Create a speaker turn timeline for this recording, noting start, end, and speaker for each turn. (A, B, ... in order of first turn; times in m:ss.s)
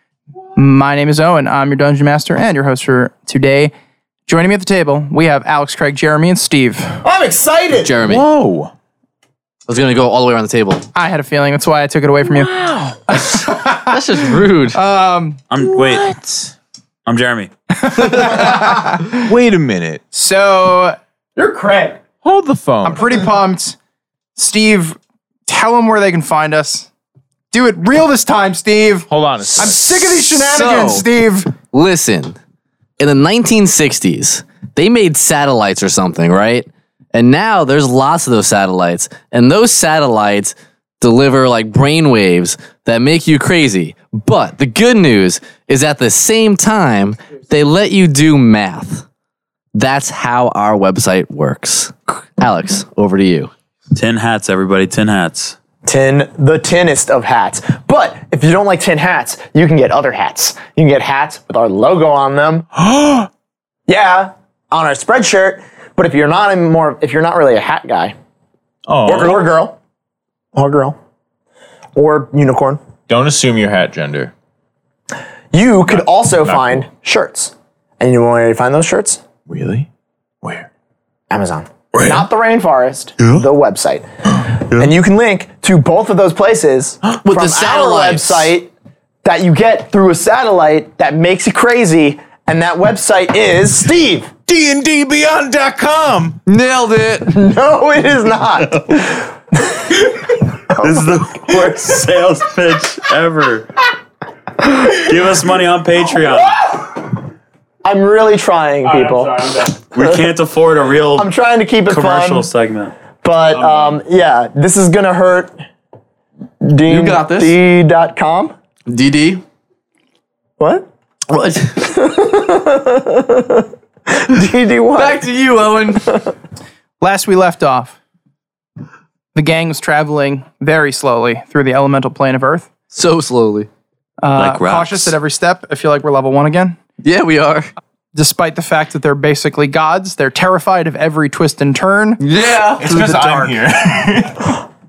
0:00.6-0:03.7 A
0:04.3-0:07.0 A
0:07.0-0:07.9 B
0:07.8-0:08.2 C
0:08.0-0:08.7 D
0:09.7-0:10.9 C
0:11.0-0:12.6 A
0:12.4-0:13.0 D
0:13.1-0:15.4 A
0:13.6-0:14.8 C
0:15.5-0:16.4 E
0:17.0-0:17.5 E
0:17.8-0:19.2 A
0:18.3-0:20.0 D
0:20.1-0:22.0 A
0:22.2-0:23.2 D
0:22.8-0:23.8 A
0:24.4-0:26.9 A
0:27.5-0:31.5 A
0:29.1-0:29.9 D
0:30.3-0:31.0 C
0:31.7-0:32.4 C
0:33.0-0:49.0 C
0:49.7-0:53.5 C
0:54.0-0:55.6 E
0:55.8-1:02.7 B
1:02.8-1:03.3 D
1:03.9-1:08.1 B
1:08.9-1:09.4 D
1:09.0-1:09.8 B
1:10.6-1:11.0 B
1:12.0-1:12.8 B
1:13.1-1:14.3 D
1:15.5-1:19.2 B
1:15.9-1:16.8 D
1:19.5-1:19.9 D
1:20.4-1:20.7 D
1:21.3-1:28.7 B
1:27.2-1:28.5 C
1:29.2-1:34.3 B
1:34.5-1:36.4 D
1:36.4-1:37.3 C
1:37.2-1:40.0 B
1:38.6-1:39.1 E
1:40.1-1:43.7 E
1:40.8-1:41.1 B
1:44.7-1:46.9 E
1:47.8-1:50.3 B
1:48.8-1:49.8 D
1:49.9-1:51.3 E
1:51.1-1:52.5 B
1:51.9-1:53.0 E
1:53.2-1:55.5 B
1:53.5-1:54.0 E
1:56.6-1:58.6 B
1:56.9-1:57.6 C
1:58.9-1:59.4 C
2:00.6-2:00.9 B
2:01.3-2:01.9 C
2:01.8-2:05.2 B
2:05.0-2:06.1 C
2:06.0-2:06.3 B
2:07.0-2:08.0 A
2:09.3-2:12.7 A
2:12.9-2:13.7 C
2:14.2-2:16.8 A
2:14.4-2:15.1 E
2:17.0-2:17.7 C
2:18.1-2:22.2 A
2:22.3-2:22.8 C
2:22.4-2:24.4 D
2:22.8-2:23.6 A